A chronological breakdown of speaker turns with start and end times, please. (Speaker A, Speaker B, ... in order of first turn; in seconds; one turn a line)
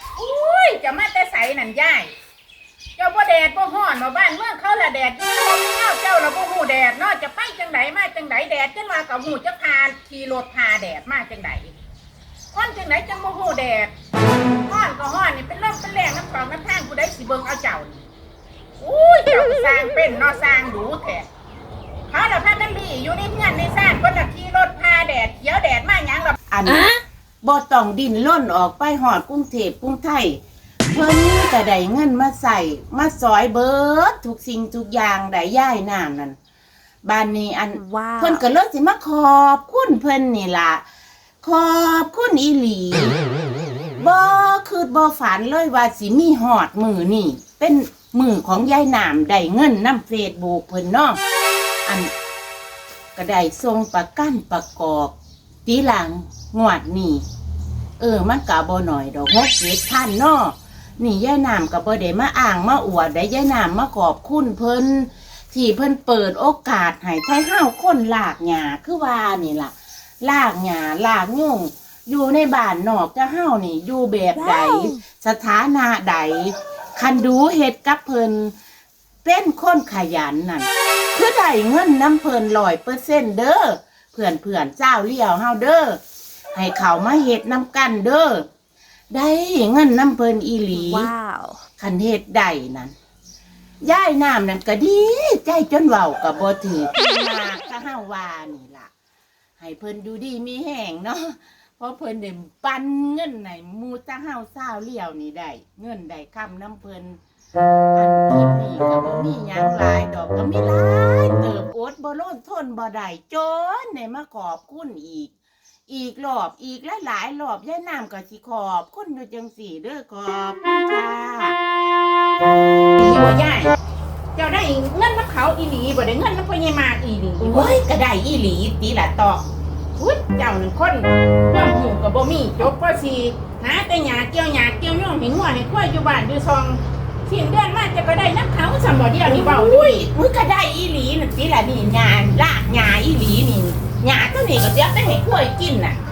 Speaker A: 0.2-2.1
Speaker A: 3.0-11.7
Speaker A: 12.5-13.9
Speaker A: 14.5-18.1
Speaker A: 18.8-21.3
Speaker A: 22.1-26.4
Speaker B: 26.5-30.4
Speaker B: 30.9-36.4
Speaker B: 37.0-40.8
Speaker C: 37.7-38.4
Speaker B: 41.4-43.2
Speaker B: 44.0-51.2
Speaker B: 51.9-52.1
Speaker B: 53.1-55.1
Speaker B: 55.7-57.2
Speaker B: 58.0-78.5
Speaker C: 74.4-75.0
Speaker B: 79.2-86.0
Speaker B: 86.5-88.5
Speaker B: 89.1-91.1
Speaker C: 90.7-91.6
Speaker B: 91.8-92.9
Speaker B: 93.8-98.9
Speaker B: 99.6-107.2
Speaker B: 108.0-115.3
Speaker B: 115.9-121.6
Speaker A: 123.0-123.7
Speaker A: 124.4-127.7
Speaker B: 127.4-129.4
Speaker A: 130.0-140.1
Speaker B: 139.3-146.0